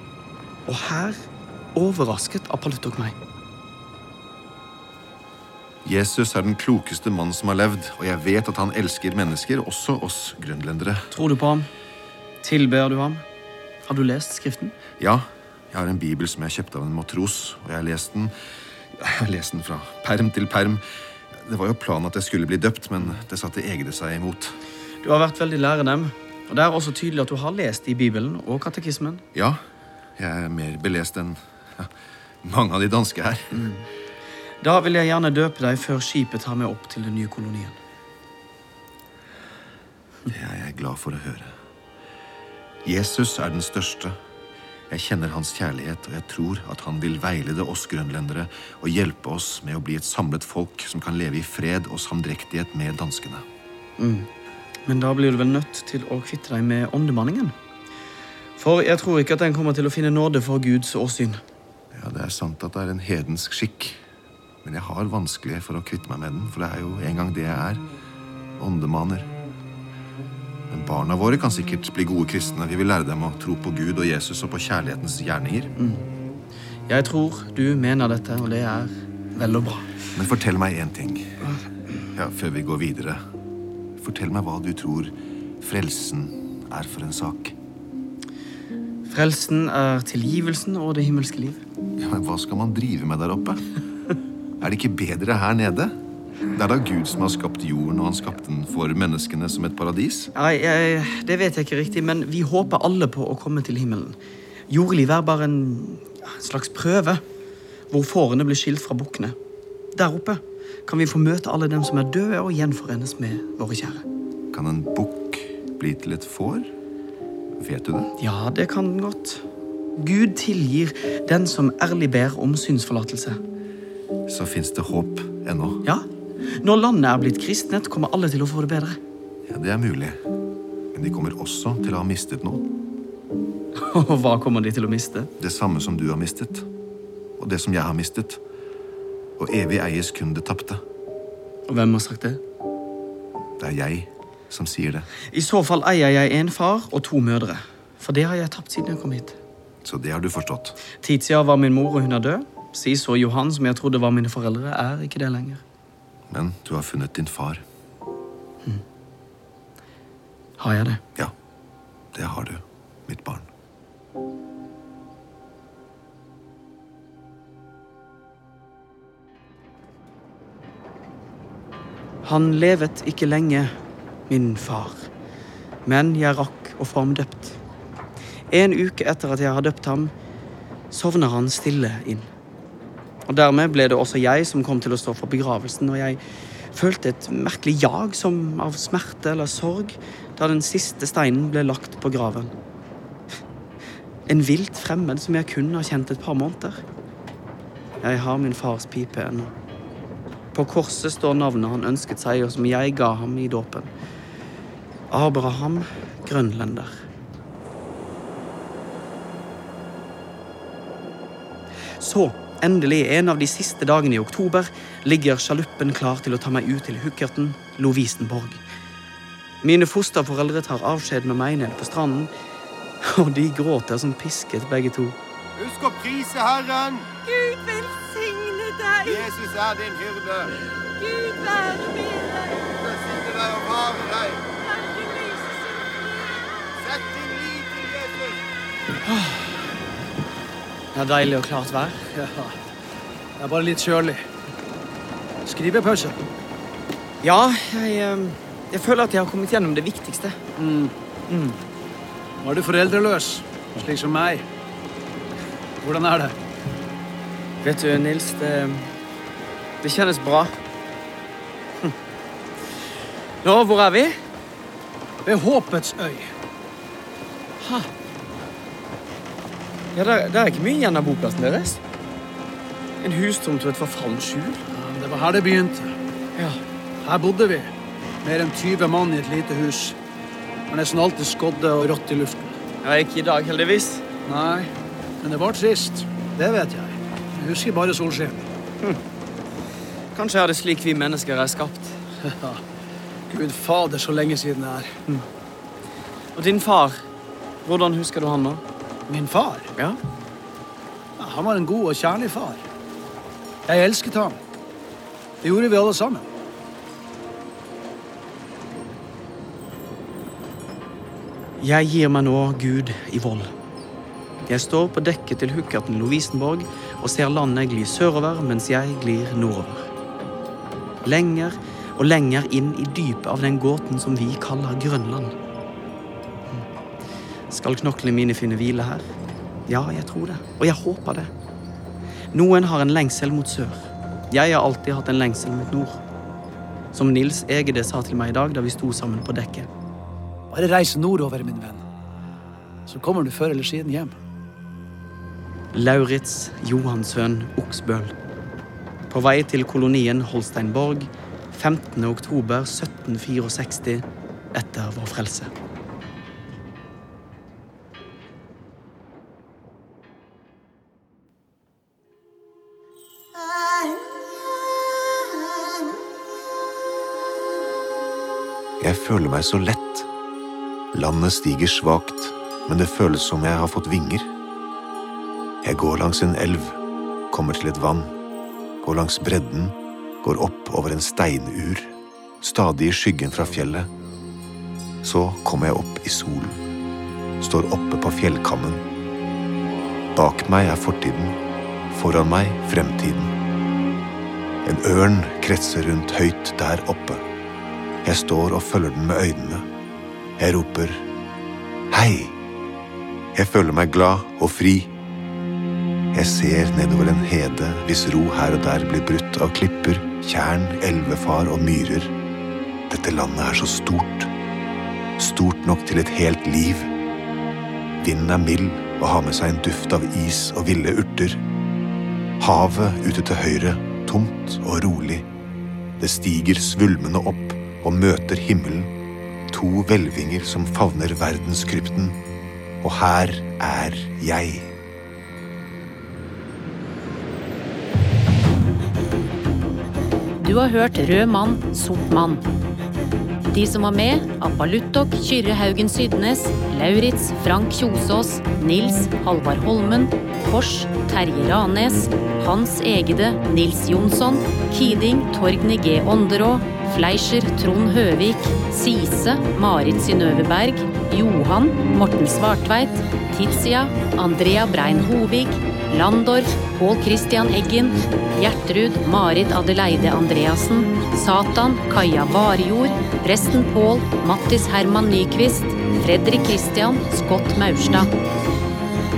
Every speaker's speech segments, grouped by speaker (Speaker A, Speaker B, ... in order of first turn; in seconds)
Speaker A: 0.7-1.2, 1.7-3.1, 11.1-11.7, 12.4-13.2, 13.8-14.8, 25.0-29.2, 33.5-33.9, 34.6-37.8, 54.0-54.3, 54.9-57.5, 58.6-61.4, 75.8-76.0, 76.9-80.0, 89.1-91.6, 100.3-104.2, 104.7-107.2, 107.9-109.3, 109.9-114.0, 118.2-119.4, 120.0-123.4, 126.6-129.0, 133.8-135.3, 141.7-142.4, 145.3-149.4, 151.0-155.6, 160.6-161.0, 172.2-173.7, 174.3-175.1, 175.8-177.6, 178.5-180.1, 180.9-182.3, 183.3-186.2, 186.7-192.5, 194.3-196.8, 198.0-199.5, 200.5-203.9, 205.1-207.0, 212.0-218.6, 219.6-222.3, 223.0-225.2, 239.0-239.7, 240.9-242.1, 247.2-250.4, 251.3-251.6, 257.6-258.9, 259.8-260.6, 263.4-264.2, 267.6-267.9, 269.9-271.8, 273.0-274.6, 282.8-284.0, 290.1-292.0, 296.3-297.0, 297.6-298.6, 311.6-313.5, 314.5-319.9, 321.0-325.3, 327.5-329.1, 329.7-331.3, 332.3-336.0, 336.9-339.7, 345.7-348.1, 349.1-355.5
Speaker B: 5.8-11.1, 15.0-18.3, 18.9-24.6, 29.3-29.6, 30.2-31.9, 32.4-33.6, 40.3-41.5, 42.8-44.1, 44.9-53.4, 61.9-64.0, 64.6-67.8, 68.6-69.3, 70.7-75.7, 80.1-81.4, 82.0-83.2, 84.0-87.5, 92.0-93.7, 94.6-96.0, 96.5-100.3, 114.5-116.7, 117.6-118.1, 124.3-125.8, 129.5-130.2, 130.9-132.7, 135.4-136.7, 137.4-138.4, 139.4-140.8, 143.6-145.1, 149.8-150.8, 156.3-157.6, 162.1-163.5, 368.8-370.1, 370.9-374.3, 375.6-376.8, 377.3-378.1, 378.8-383.9, 385.0-386.6, 387.4-388.8, 390.1-391.4, 391.9-393.3, 394.6-397.2, 398.0-399.6, 400.4-401.1, 401.9-402.4, 403.3-404.9, 406.1-412.1, 412.9-414.3, 415.2-416.9, 418.0-421.4, 422.4-425.3, 426.0-428.9, 429.5-432.2, 432.8-434.7
Speaker C: 225.6-227.1, 229.0-230.5, 232.6-234.5, 236.8-238.4
Speaker D: 227.2-229.3, 231.0-232.7, 234.6-236.4
Speaker E: 242.1-242.6, 243.4-244.2, 245.4-246.2, 250.6-250.9, 252.4-254.4, 255.8-256.4, 265.2-266.3, 274.7-275.9, 277.0-277.7, 278.2-280.0, 280.7-282.5, 284.2-284.7, 285.2-288.5, 292.2-292.6, 293.3-294.9, 299.1-299.7, 301.2-302.6, 303.6-304.4, 305.4-306.3, 340.5-341.8, 342.9-344.1
Speaker F: 440.4-442.4, 443.5-478.1